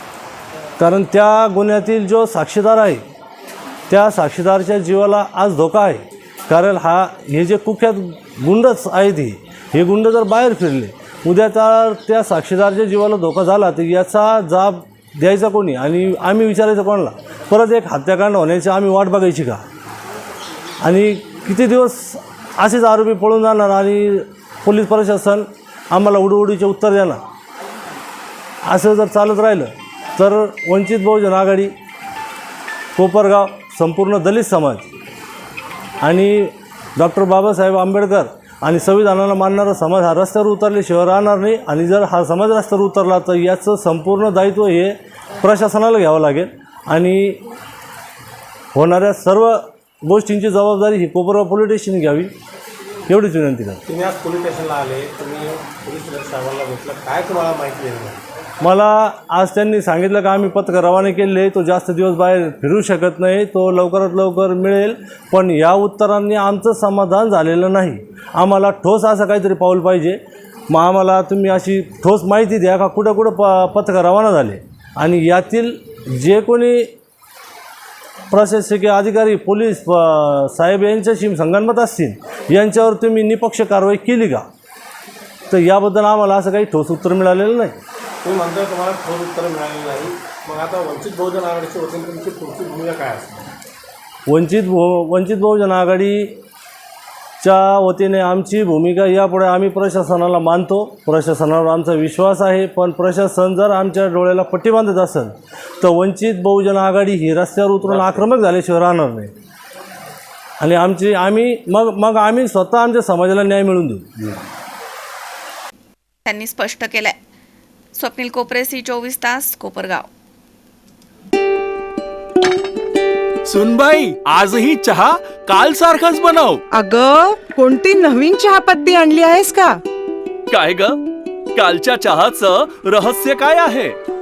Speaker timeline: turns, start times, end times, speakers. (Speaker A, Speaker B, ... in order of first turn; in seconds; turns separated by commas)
Speaker A: 0.8-3.0, Speaker A: 3.9-19.6, Speaker A: 20.8-27.2, Speaker A: 28.6-31.7, Speaker A: 33.0-34.9, Speaker A: 36.0-47.4, Speaker A: 48.7-52.3, Speaker A: 53.1-53.8, Speaker B: 53.9-58.2, Speaker A: 58.6-70.2, Speaker A: 70.7-76.9, Speaker A: 78.3-84.5, Speaker A: 85.5-87.8, Speaker B: 88.2-93.5, Speaker A: 94.3-96.3, Speaker A: 97.4-109.3, Speaker A: 110.6-114.3, Speaker C: 116.3-117.2, Speaker C: 118.0-120.1, Speaker D: 123.5-126.6, Speaker E: 126.7-129.8, Speaker D: 130.5-131.0, Speaker D: 131.6-134.0